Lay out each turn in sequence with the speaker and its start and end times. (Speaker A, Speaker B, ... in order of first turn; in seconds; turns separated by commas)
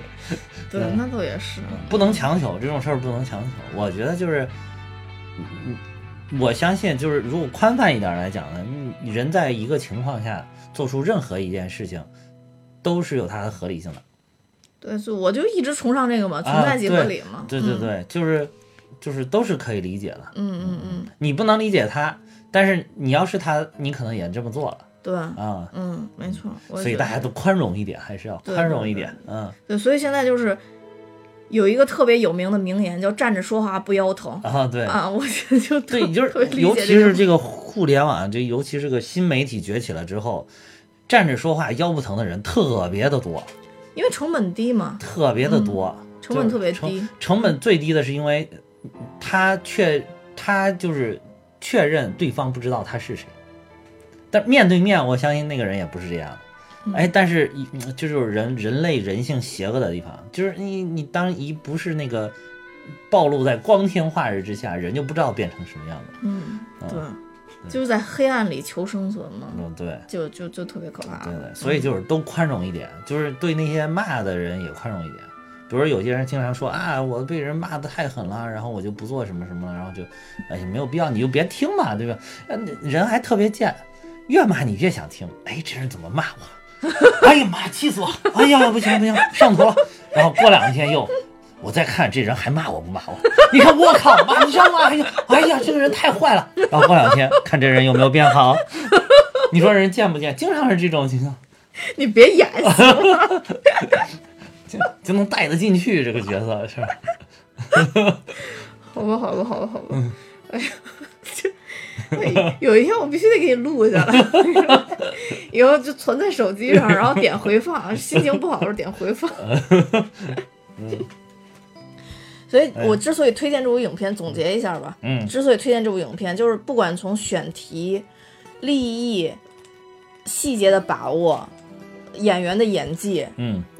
Speaker A: 0.7-2.1, Speaker B: 0.7-1.0, Speaker B: 1.7-4.5, Speaker B: 5.3-12.1, Speaker B: 12.8-14.0, Speaker A: 14.8-17.9, Speaker B: 16.4-24.8, Speaker A: 20.3-21.1, Speaker A: 25.0-27.3, Speaker B: 25.4-25.7, Speaker B: 26.7-29.6, Speaker A: 28.4-30.6, Speaker A: 31.5-37.3, Speaker B: 34.4-35.0, Speaker B: 35.9-40.5, Speaker B: 41.1-43.5, Speaker A: 43.9-47.1, Speaker B: 45.0-48.5, Speaker B: 49.0-53.3, Speaker B: 54.3-56.4, Speaker A: 56.9-57.1, Speaker B: 56.9-62.3, Speaker B: 63.1-66.2, Speaker A: 66.2-71.9, Speaker B: 69.5-70.1, Speaker B: 71.1-101.4, Speaker A: 99.0-99.4, Speaker A: 101.8-104.0, Speaker B: 102.6-103.8, Speaker B: 104.7-107.0, Speaker B: 107.7-108.2, Speaker A: 108.5-119.5, Speaker B: 112.1-112.5, Speaker B: 114.1-115.0, Speaker B: 116.7-117.2, Speaker B: 119.4-121.0, Speaker A: 122.5-128.1, Speaker B: 125.0-125.3, Speaker A: 128.6-129.4, Speaker A: 130.2-131.5, Speaker A: 132.1-133.3, Speaker B: 133.4-133.7